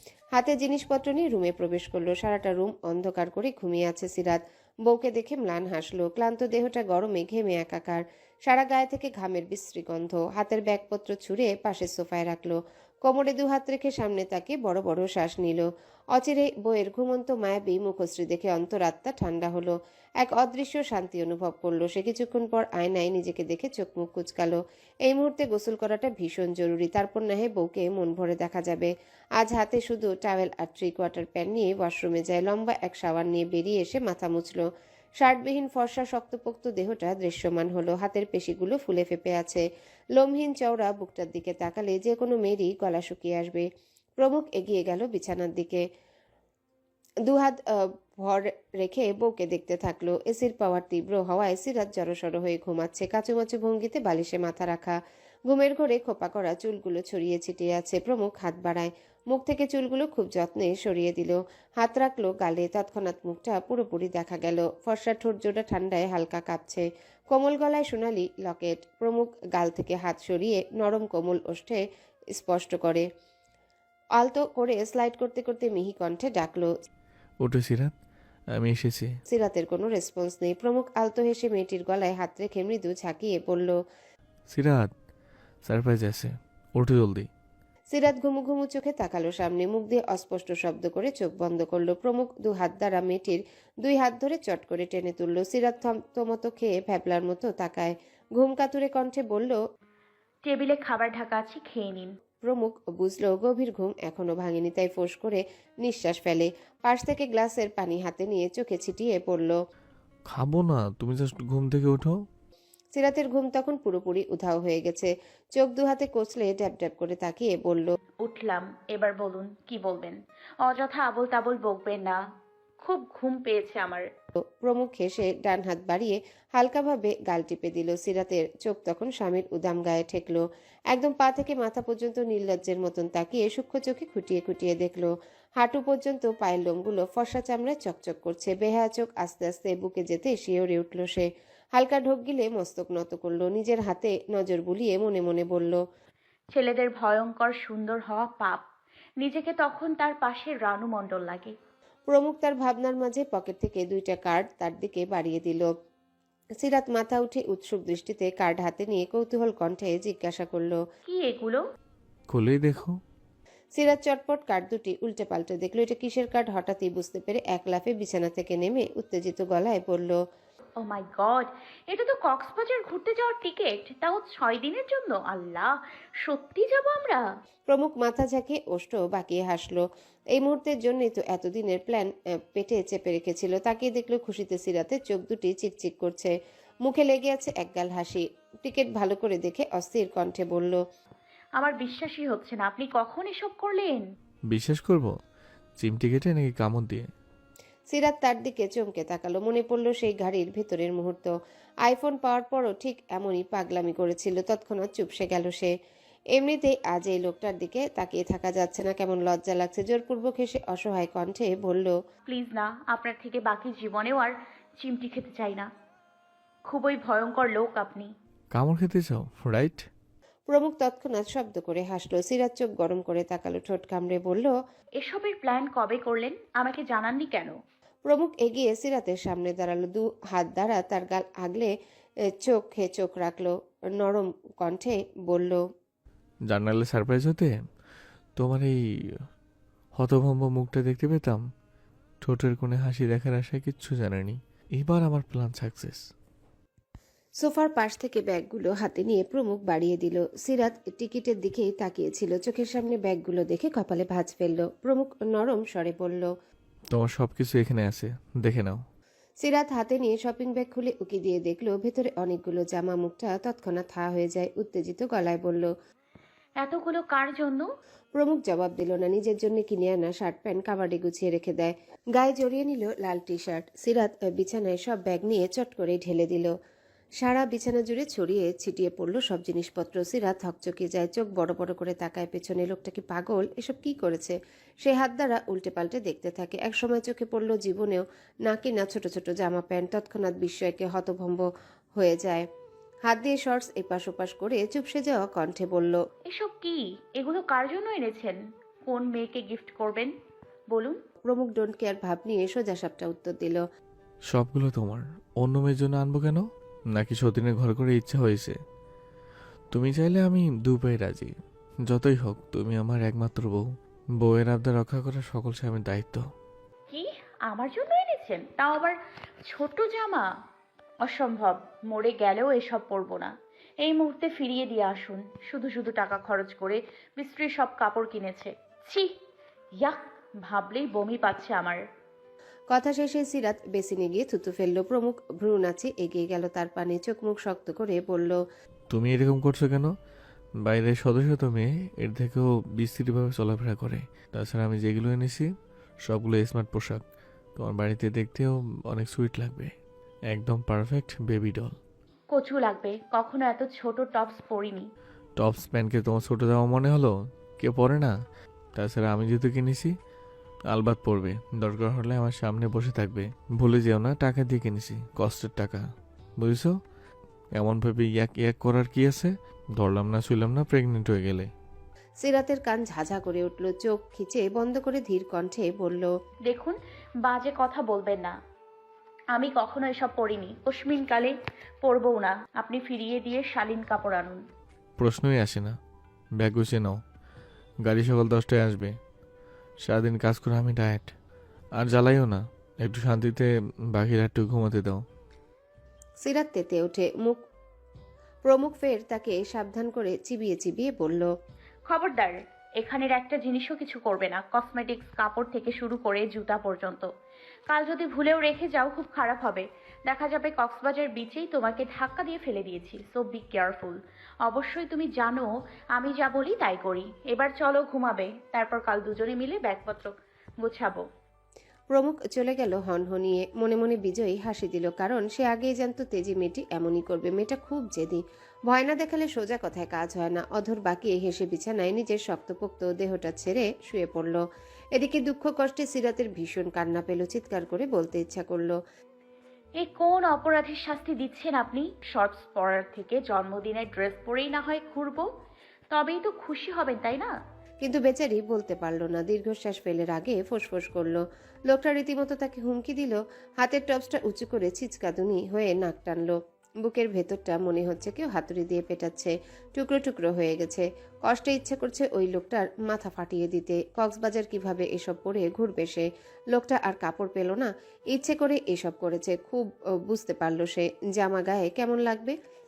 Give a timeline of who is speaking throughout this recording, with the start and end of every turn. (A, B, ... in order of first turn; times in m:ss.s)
0:00.3-0:34.6 A
0:35.2-0:39.6 A
0:40.1-0:45.8 A
0:47.2-1:13.1 A
1:14.2-1:16.7 A
1:17.4-1:17.9 B
1:18.5-1:19.1 B
1:19.3-1:23.8 A
1:24.5-1:24.9 B
1:25.6-1:27.3 B
1:27.9-1:39.6 A
1:40.4-1:42.1 C
1:42.4-1:49.6 A
1:50.3-1:52.2 B
1:52.9-1:57.9 A
1:58.2-2:02.2 C
2:02.8-2:04.0 C
2:04.6-2:25.8 A
2:26.5-2:28.6 C
2:29.2-2:31.5 C
2:32.1-2:35.7 A
2:36.6-2:40.8 A
2:41.1-2:41.6 C
2:42.3-2:43.0 B
2:43.7-2:50.2 A
2:50.8-2:57.2 C
2:57.7-3:10.8 A
3:11.6-3:14.1 C
3:14.5-3:15.1 B
3:15.8-3:17.1 B
3:17.9-3:21.3 A
3:21.8-3:25.7 A
3:26.3-3:32.0 A
3:32.3-3:35.7 C
3:36.7-3:38.1 C
3:38.5-3:39.8 B
3:40.5-3:44.5 A
3:45.0-3:47.6 C
3:48.0-3:51.7 A
3:52.3-3:55.6 A
3:56.5-3:57.5 B
3:58.4-3:58.8 B
4:00.0-4:01.4 B
4:02.2-4:06.0 B
4:07.4-4:16.3 A
4:16.9-4:18.8 B
4:19.4-4:25.7 A
4:26.6-4:27.7 C
4:28.1-4:36.5 A
4:37.2-4:51.4 A
4:52.0-4:52.5 A
4:53.0-4:56.0 A
4:56.3-5:00.1 C
5:00.7-5:01.0 C
5:01.3-5:03.6 A
5:04.3-5:08.6 B
5:09.7-5:11.3 B
5:11.9-5:13.6 B
5:14.2-5:16.2 B
5:16.9-5:20.3 C
5:21.0-5:29.1 C
5:29.8-5:31.8 C
5:32.7-5:38.4 A
5:38.9-5:39.9 B
5:40.6-5:45.5 B
5:46.0-5:47.0 B
5:47.6-5:49.7 B
5:50.3-5:51.7 B
5:52.3-5:54.9 C
5:55.4-5:58.1 B
5:58.7-5:59.9 B
6:00.7-6:05.8 B
6:06.4-6:06.7 B
6:07.6-6:11.5 B
6:12.2-6:16.1 A
6:16.5-6:18.3 C
6:19.3-6:24.4 C
6:25.0-6:25.7 B
6:26.4-6:27.0 B
6:27.8-6:28.9 B
6:29.8-6:31.1 B
6:31.8-6:35.0 B
6:36.2-6:37.4 A
6:38.4-6:41.3 A
6:41.9-6:47.1 C
6:47.7-7:01.1 C
7:01.9-7:14.4 A
7:15.0-7:18.8 A
7:19.8-7:25.3 C
7:25.9-7:27.3 C
7:27.8-7:52.4 A